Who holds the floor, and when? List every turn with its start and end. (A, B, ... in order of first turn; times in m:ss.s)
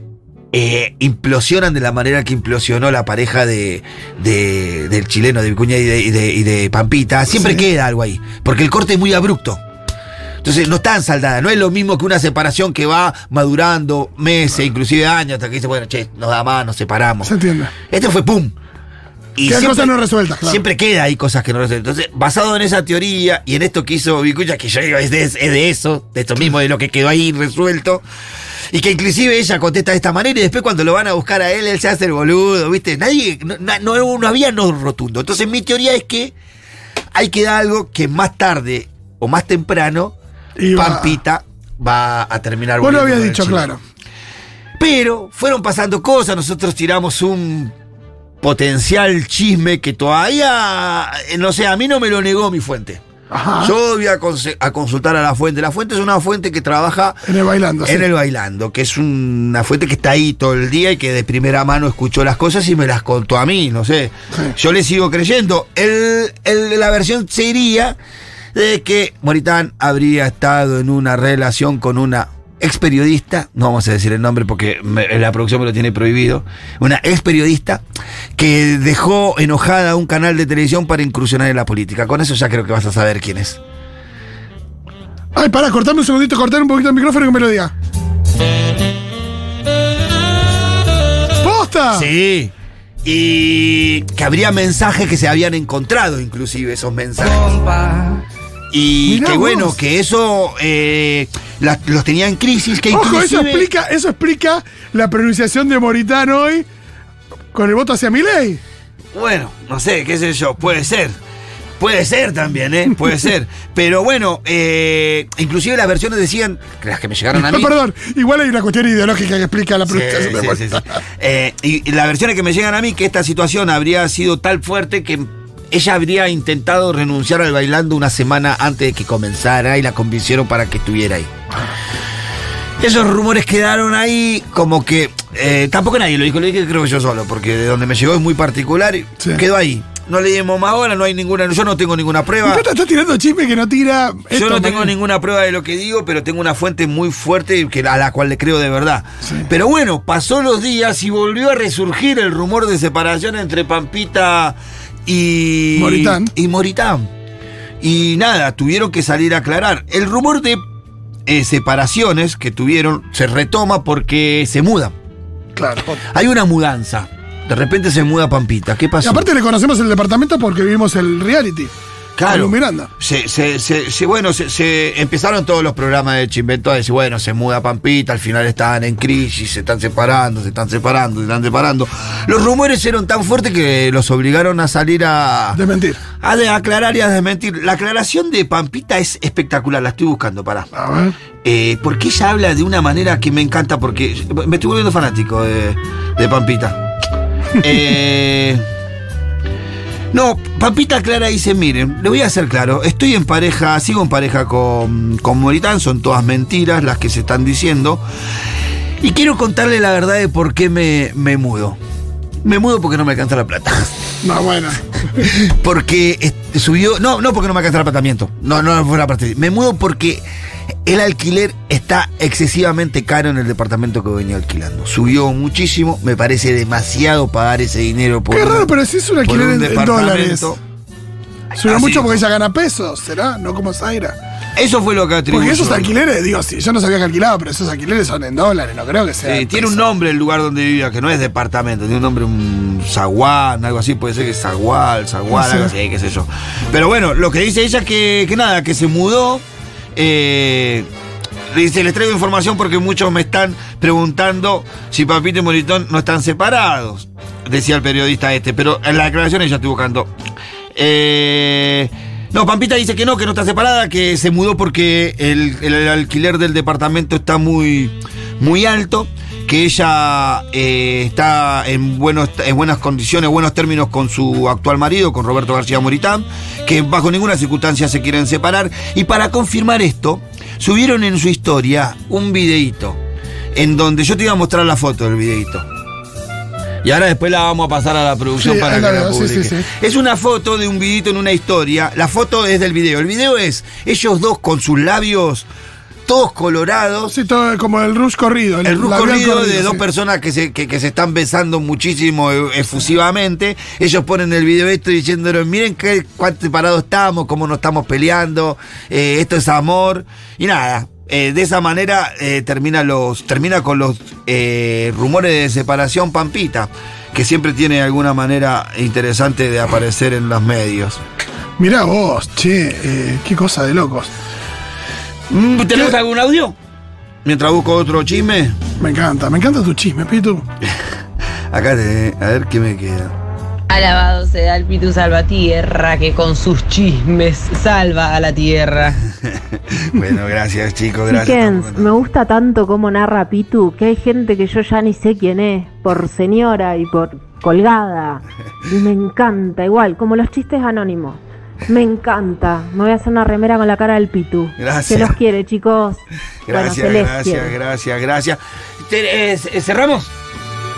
0:00.5-0:09.6 A
0:07.3-0:07.6 B
0:10.4-0:17.3 A
0:17.2-0:17.7 B
0:17.9-0:18.5 A
0:19.4-0:28.0 A
0:19.4-0:20.6 B
0:28.7-0:36.3 A
0:37.1-0:40.2 A
0:40.6-0:41.1 B
0:40.8-0:43.7 A
0:42.8-0:43.8 B
0:44.8-0:47.7 A
0:48.4-0:53.0 A
0:53.3-0:53.7 B
0:53.6-0:57.2 A
0:57.3-0:58.0 B
0:57.8-1:08.0 A
1:08.6-1:17.8 A
1:18.4-1:23.6 A
1:25.4-1:27.7 B
1:31.4-1:32.1 B
1:31.9-1:32.5 A
1:33.0-1:37.6 A
1:38.7-1:43.7 A
1:39.1-1:39.8 B
1:42.9-1:46.7 B
1:47.5-1:48.6 B
1:49.2-1:51.2 A
1:51.8-1:57.7 A
1:57.3-2:00.8 B
1:59.9-2:11.3 A
2:12.8-2:22.6 A
2:22.4-2:24.9 B
2:24.3-2:37.1 A
2:35.8-2:36.3 B
2:37.8-2:40.6 A
2:41.3-2:44.9 A
2:45.6-2:45.9 B
2:46.1-2:49.3 A
2:49.0-2:51.7 B
2:52.2-3:05.6 A
2:52.3-2:52.9 B
3:05.5-3:06.0 B
3:06.2-3:10.7 A
3:10.8-3:11.2 B
3:11.4-3:16.8 A
3:17.6-3:18.6 A
3:20.1-3:28.0 A
3:29.0-3:31.8 A
3:32.4-3:34.0 A
3:34.2-3:34.8 B
3:35.2-3:40.2 A
3:40.8-3:48.7 A
3:48.3-3:50.5 B
3:49.2-3:50.6 A
3:51.6-3:52.2 A
3:51.6-3:54.2 B
3:54.6-3:55.9 A
3:55.3-3:59.8 B
3:59.2-4:09.4 A
4:05.3-4:05.7 B
4:10.0-4:10.9 A
4:11.5-4:20.1 A
4:20.8-4:43.0 A
4:43.6-4:45.6 A
4:46.8-4:55.5 A
4:48.4-4:49.7 B
4:56.1-4:57.1 A
4:57.1-4:59.8 B
4:58.6-5:21.0 A
5:21.6-5:24.1 B
5:25.3-5:26.6 A
5:27.2-5:28.6 A
5:28.8-5:30.4 B
5:31.5-5:33.1 A
5:33.7-5:39.0 C
5:39.9-5:41.9 A
5:41.1-5:57.5 D
5:54.6-5:55.2 A
5:56.5-6:00.1 A